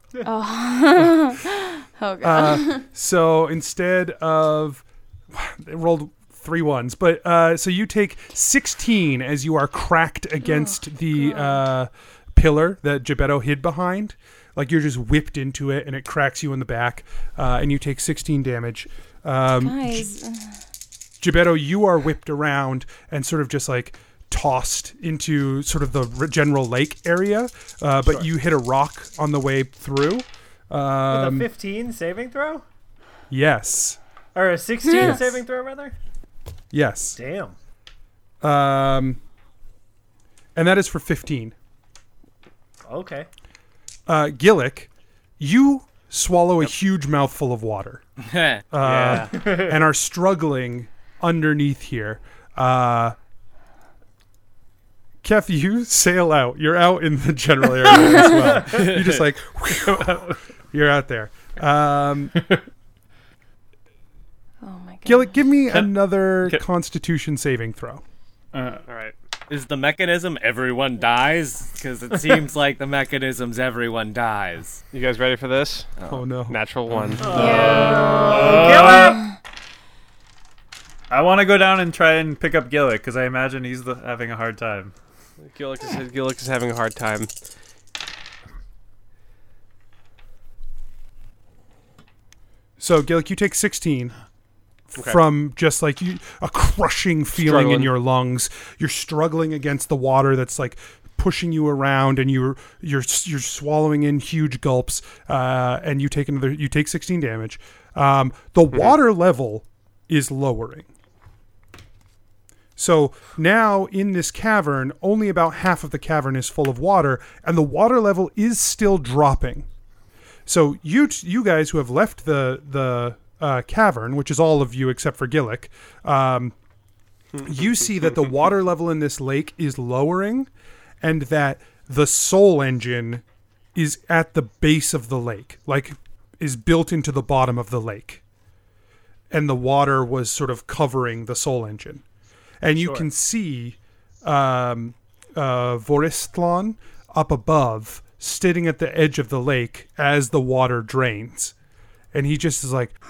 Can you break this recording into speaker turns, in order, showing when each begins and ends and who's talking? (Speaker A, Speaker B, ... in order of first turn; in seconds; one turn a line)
Speaker A: 0.2-2.8
Speaker B: 2.2-20.1
Speaker A: 10.4-11.6
Speaker A: 19.6-20.5
Speaker B: 21.2-31.5
Speaker C: 31.1-32.6
Speaker B: 33.3-34.0
Speaker C: 34.4-36.0
Speaker A: 34.9-35.2
Speaker B: 36.7-37.2
Speaker C: 37.2-37.5
Speaker B: 38.4-39.2
Speaker B: 40.6-41.5
Speaker C: 42.9-43.3
Speaker B: 44.1-48.0
Speaker D: 48.2-48.6
Speaker B: 48.7-53.2
Speaker E: 48.8-49.3
Speaker B: 55.2-62.4
Speaker A: 64.6-65.3
Speaker B: 65.0-68.0
Speaker F: 68.5-68.8
Speaker E: 68.9-69.1
Speaker D: 69.5-74.8
Speaker E: 74.9-75.9
Speaker B: 76.1-76.6
Speaker E: 76.5-77.4
Speaker C: 77.2-79.2
Speaker F: 77.3-79.2
Speaker A: 77.3-79.1
Speaker F: 81.1-84.9
Speaker E: 85.5-87.3
Speaker B: 92.8-94.1
Speaker B: 94.9-110.9
Speaker E: 97.3-97.9
Speaker B: 112.8-119.7
Speaker B: 120.5-126.5
Speaker B: 127.4-130.5
Speaker B: 131.0-133.2
Speaker B: 133.8-138.2
Speaker B: 139.3-142.0
Speaker B: 142.6-151.5
Speaker C: 142.8-143.1
Speaker B: 152.1-152.9